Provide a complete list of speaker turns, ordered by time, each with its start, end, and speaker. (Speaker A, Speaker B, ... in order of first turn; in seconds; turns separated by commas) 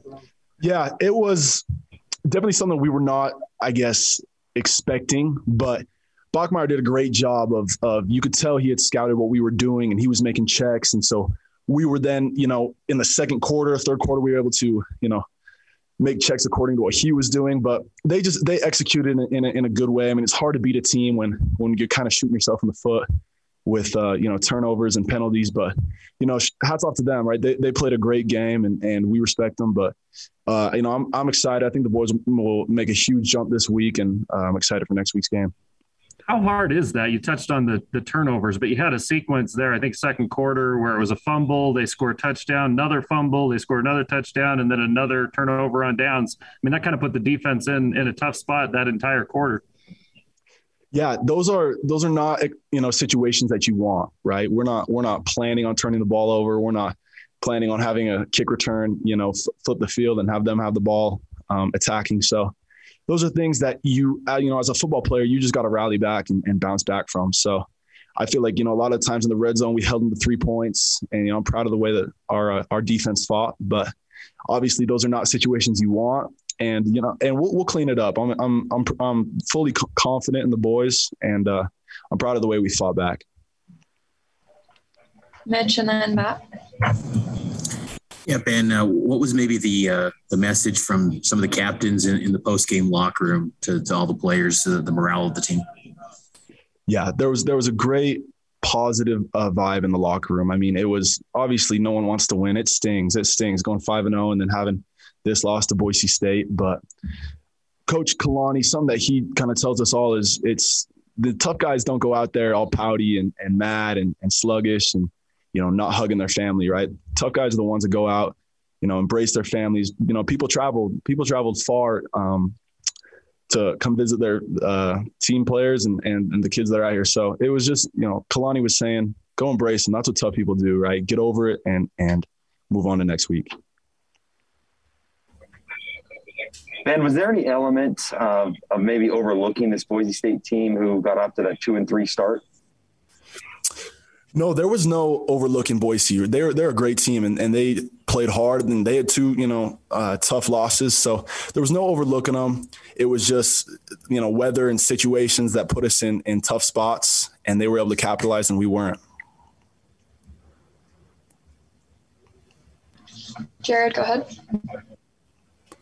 Speaker A: 0.6-1.6, Speaker A: 2.3-15.2, Speaker A: 16.0-23.1, Speaker A: 23.6-29.9, Speaker A: 30.5-35.5, Speaker B: 36.3-49.6, Speaker A: 50.9-62.5, Speaker A: 63.1-67.7, Speaker A: 68.2-73.9, Speaker A: 74.5-83.2, Speaker C: 85.5-86.9, Speaker D: 88.3-95.6, Speaker A: 96.9-106.8, Speaker A: 107.9-122.6, Speaker A: 123.5-133.5, Speaker E: 136.8-142.4, Speaker A: 144.3-159.0, Speaker C: 163.6-164.3